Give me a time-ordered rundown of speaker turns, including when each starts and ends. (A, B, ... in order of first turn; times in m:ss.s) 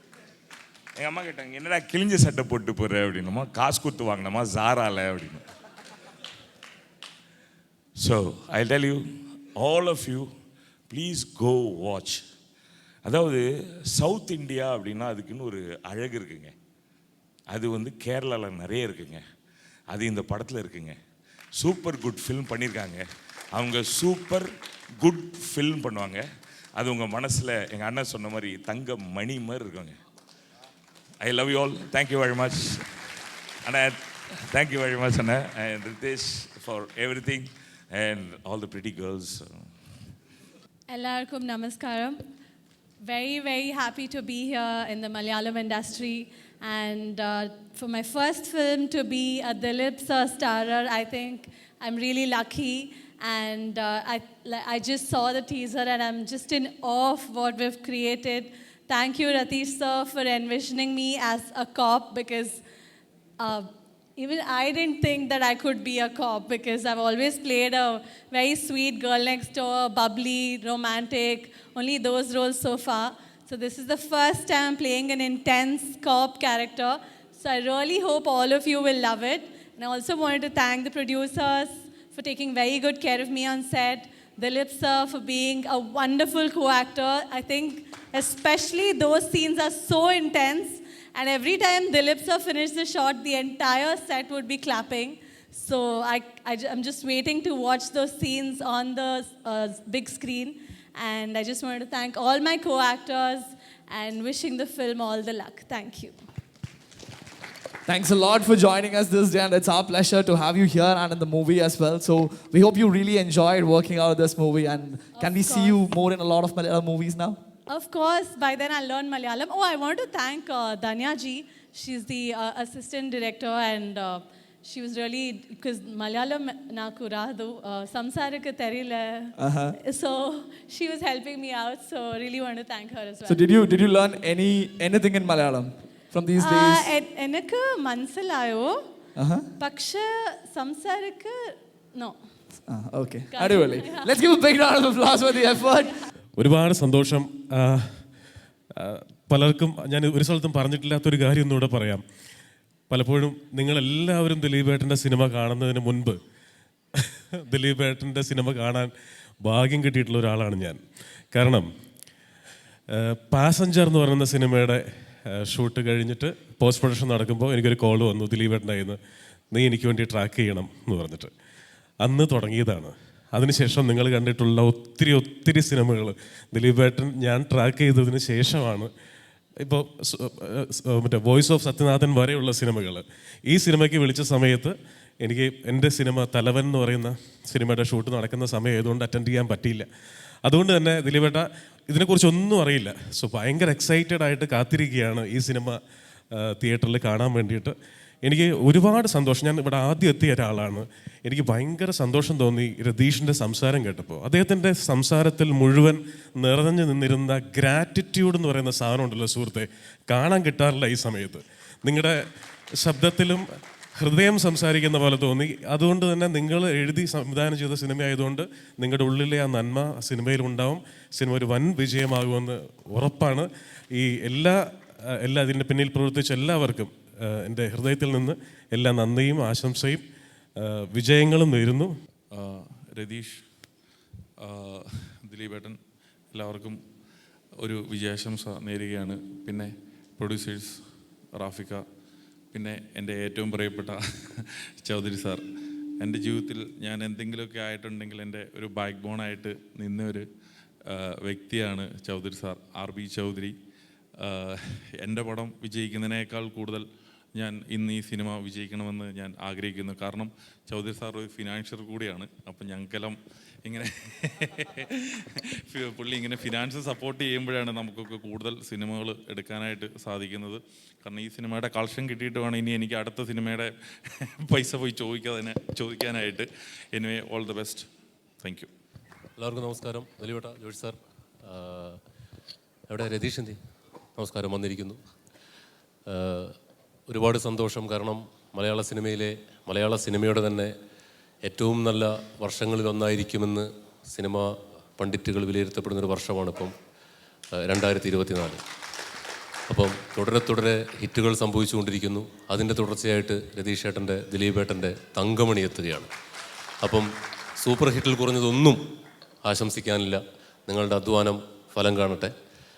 0:01.0-0:05.4 A
0:08.0-0:09.0 A
0:09.6-0:10.3 A
0:10.9-0:12.2 A
0:13.0-0:16.5 A
0:17.5-0:19.2 A
0:19.9-0:21.0 A
0:21.6-0:24.5 A
0:25.0-0:26.2 A
0:26.8-0:30.0 A
0:31.2-0:32.8 A
0:33.6-0:34.0 A
0:34.5-0:39.4 A
0:40.9-0:42.2 B
0:43.0-1:02.6 B
1:03.4-1:46.2 B
1:47.9-1:57.4 C
1:55.1-1:55.8 B
1:57.7-2:13.4 B
2:09.4-2:09.7 C
2:13.2-2:16.9 C
2:16.4-2:18.7 B
2:19.2-2:19.4 C
2:19.6-2:21.3 B
2:22.7-2:25.9 C
2:23.3-2:24.1 B
2:26.4-2:28.0 D
2:28.8-2:32.0 D
2:32.9-2:36.2 D
2:36.9-2:38.9 D
2:39.4-2:40.8 D
2:41.3-2:41.7 D
2:42.9-2:49.0 D
2:49.5-2:51.3 D
2:52.0-2:58.9 D
2:59.6-3:09.9 D
3:10.4-3:15.8 D
3:16.3-3:32.2 D
3:32.8-3:44.6 D
3:45.1-3:50.0 D
3:50.6-3:51.9 D
3:52.3-3:53.4 E
3:54.4-3:55.8 E
3:56.3-3:56.8 E
3:57.6-4:01.8 E
4:02.5-4:05.4 E
4:06.0-4:10.3 E
4:10.9-4:13.6 E
4:14.2-4:33.7 E
4:34.4-4:37.9 E
4:38.4-4:38.7 E
4:39.4-4:42.0 F
4:42.9-4:43.6 F
4:44.2-4:45.0 F
4:46.1-4:46.5 F
4:47.1-4:50.7 F
4:51.4-4:56.7 F
4:57.6-4:58.6 F
4:59.7-5:06.1 F
5:07.6-5:08.8 F
5:09.4-5:12.3 F